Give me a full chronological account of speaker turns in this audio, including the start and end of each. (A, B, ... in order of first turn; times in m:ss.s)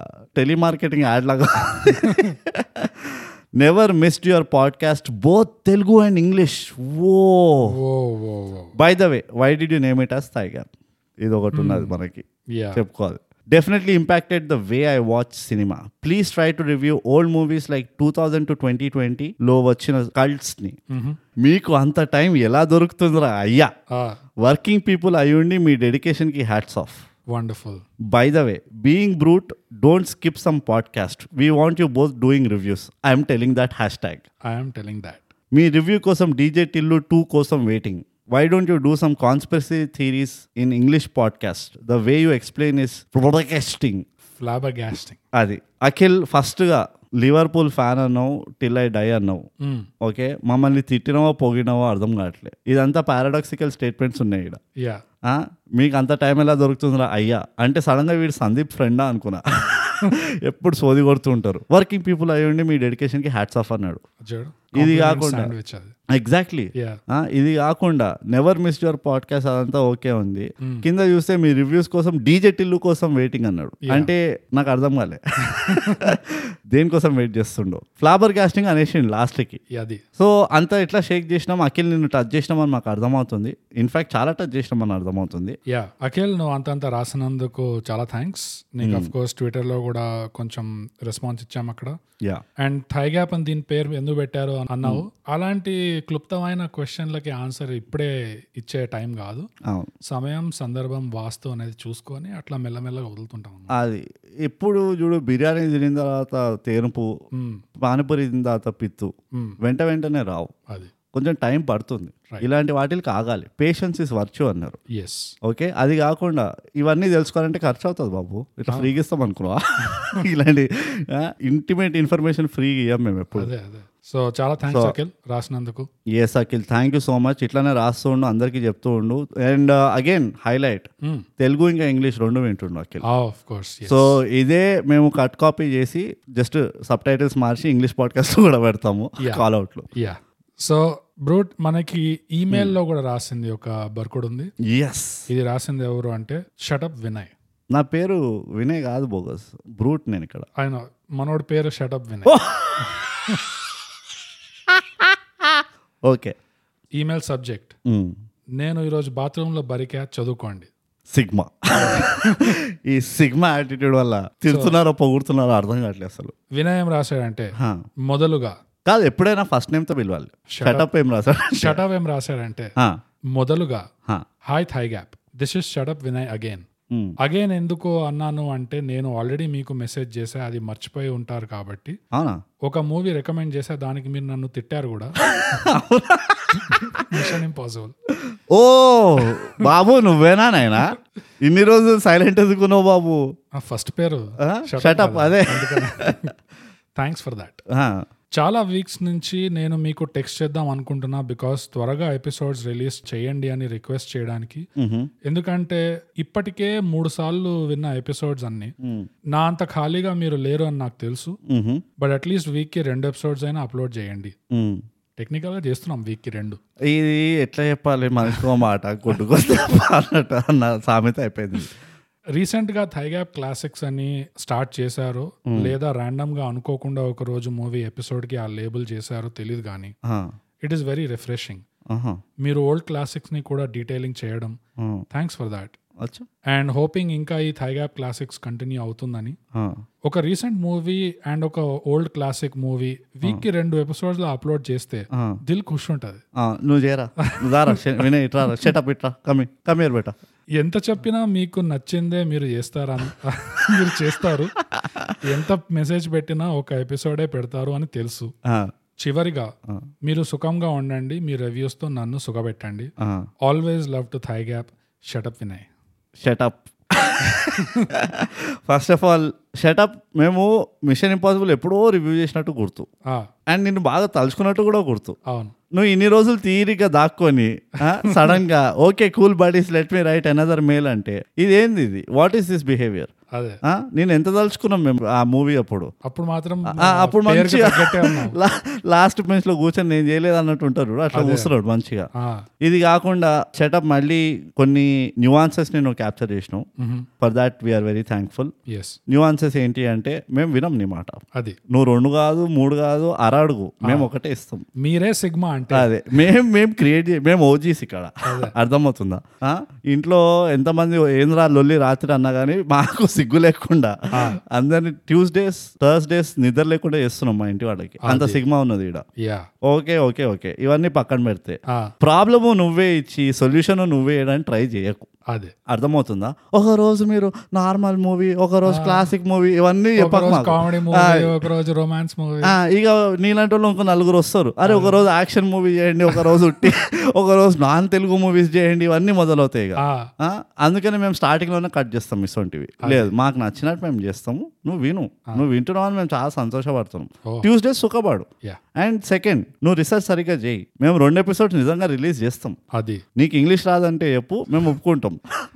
0:00.4-0:07.7 A
0:02.0-0:02.4 B
0:07.6-0:08.7 B
0:08.8-0:10.7 A
0:11.2-0:20.8 A
0:11.5-0:11.9 B
0:12.5-0:12.8 B
0:20.9-0:21.2 B
0:21.4-0:23.7 A
0:23.9-0:24.2 B
0:24.4-0:27.0 A
0:27.3-0:27.8 B
0:28.0-0:34.2 A
0:34.4-0:35.2 B
0:35.5-0:44.0 A
0:44.3-0:45.2 B
0:45.3-0:49.4 A
0:49.6-0:49.9 B
0:50.0-0:54.6 A
0:54.8-0:55.0 B
0:55.2-1:04.0 A
1:04.2-1:05.9 B
1:04.7-1:05.5 A
1:06.1-1:19.6 A
1:06.7-1:07.0 B
1:13.8-1:14.1 B
1:15.6-1:16.2 B
1:19.7-1:20.0 B
1:20.2-1:25.6 A
1:25.7-1:32.0 B
1:28.8-1:29.1 A
1:32.6-1:39.5 B
1:39.6-1:39.9 A
1:40.0-1:43.7 B
1:43.7-1:47.1 A
1:47.3-1:47.6 B
1:47.8-1:50.5 A
1:51.1-1:54.8 A
1:54.9-1:55.3 B
1:55.4-2:03.5 A
2:03.4-2:05.9 B
2:04.6-2:05.0 A
2:06.1-2:10.9 A
2:11.4-2:13.0 A
2:13.0-2:14.1 B
2:13.9-2:19.9 A
2:19.2-2:24.5 B
2:24.6-2:25.3 A
2:25.3-2:27.3 B
2:27.7-2:30.5 A
2:30.6-2:32.3 B
2:32.2-2:33.3 A
2:34.7-2:36.3 A
2:37.0-2:37.7 B
2:37.8-2:38.2 A
2:38.6-2:40.7 B
2:41.1-2:46.3 A
2:41.8-2:42.6 B
2:44.5-2:44.7 B
2:46.5-2:47.5 B
2:47.6-2:47.8 A
2:48.0-2:48.6 B
2:48.8-2:51.8 A
2:50.5-2:50.9 B
2:51.6-2:52.7 B
2:53.3-2:53.8 B
2:54.4-2:56.6 B
2:56.9-2:57.2 A
2:57.2-3:02.0 B
3:02.1-3:02.4 A
3:02.7-3:05.2 B
3:05.2-3:07.3 A
3:06.6-3:07.9 B
3:08.2-3:13.2 A
3:09.2-3:09.7 B
3:13.5-3:16.3 B
3:14.4-3:16.3 A
3:17.0-3:17.6 B
3:17.7-3:18.0 A
3:18.4-3:24.6 B
3:24.8-3:25.1 A
3:25.2-3:28.7 B
3:28.8-3:29.1 A
3:29.3-3:31.4 B
3:31.5-3:31.8 A
3:32.0-3:34.3 B
3:34.5-3:34.8 A
3:35.2-3:36.6 B
3:36.9-3:41.7 A
3:42.4-3:49.9 B
3:45.5-3:45.7 A
3:50.0-3:50.3 A
3:50.6-3:51.6 B
3:51.9-3:52.2 A
3:52.4-3:54.6 B
3:54.8-3:55.0 A
3:55.1-3:55.8 B
3:56.0-3:56.3 A
3:56.5-3:59.4 B
3:59.5-3:59.8 A
4:00.0-4:06.2 B
4:05.1-4:05.4 A
4:06.4-4:10.1 A
4:07.2-4:08.0 B
4:10.6-4:14.5 B
4:14.6-4:15.2 A
4:15.2-4:18.3 B
4:18.4-4:18.7 A
4:19.0-4:19.5 B
4:20.0-4:22.9 B
4:23.0-4:23.2 A
4:23.4-4:25.7 B
4:26.2-4:32.9 A
4:27.5-4:27.9 B
4:33.5-4:35.2 A
4:35.2-4:35.5 B
4:35.7-4:43.1 A
4:37.9-4:38.4 B
4:43.3-4:43.6 B
4:43.6-4:45.9 A
4:46.0-4:48.4 B
4:46.7-4:52.1 A
4:51.1-4:51.5 B
4:52.1-4:52.4 B
4:52.6-4:56.7 A
4:56.8-4:57.1 B
4:57.2-4:58.5 A
4:58.7-4:59.0 B
4:59.1-5:04.7 A
5:03.8-5:04.1 B
5:04.8-5:06.2 B
5:05.7-5:19.0 A
5:08.2-5:08.5 B
5:14.1-5:14.4 B
5:18.0-5:18.4 B
5:19.2-5:19.5 B
5:19.6-5:25.1 A
5:25.3-5:25.5 B
5:25.7-5:31.4 A
5:28.6-5:29.1 B
5:30.0-5:32.5 B
5:32.4-5:52.6 A
5:34.6-5:35.0 B
5:39.8-5:40.1 B
5:42.8-5:43.1 B
5:52.7-5:53.0 B
5:53.2-5:55.2 A